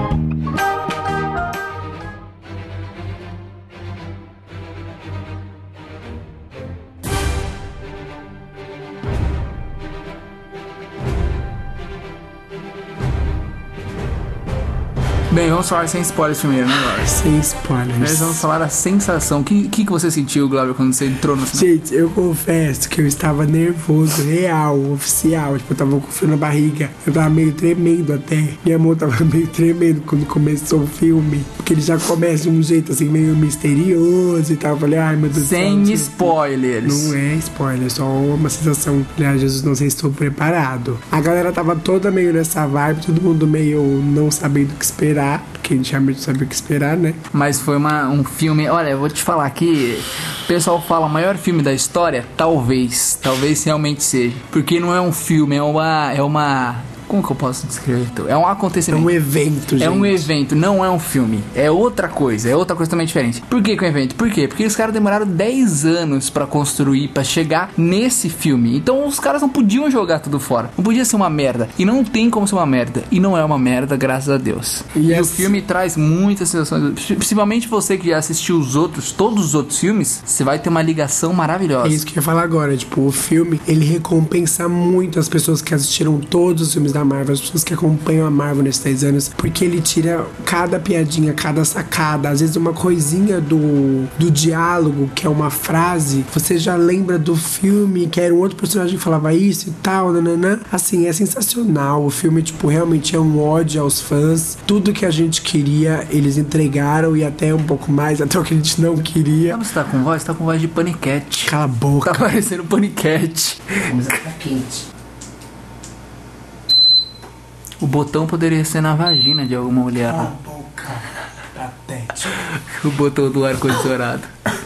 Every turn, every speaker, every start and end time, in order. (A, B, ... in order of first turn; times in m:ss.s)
0:15.3-0:17.2 A
0:17.0-0:18.4 B
0:18.0-0:21.7 A
0:21.5-0:47.2 B
0:35.3-0:37.2 A
0:47.3-0:59.1 A
0:58.9-1:00.3 B
0:59.8-1:22.0 A
1:14.9-1:15.6 B
1:21.8-1:49.6 B
1:49.5-1:53.9 A
1:51.5-1:52.3 B
1:53.8-1:54.9 B
1:57.8-2:00.3 A
2:00.1-2:02.5 B
2:02.4-2:04.3 A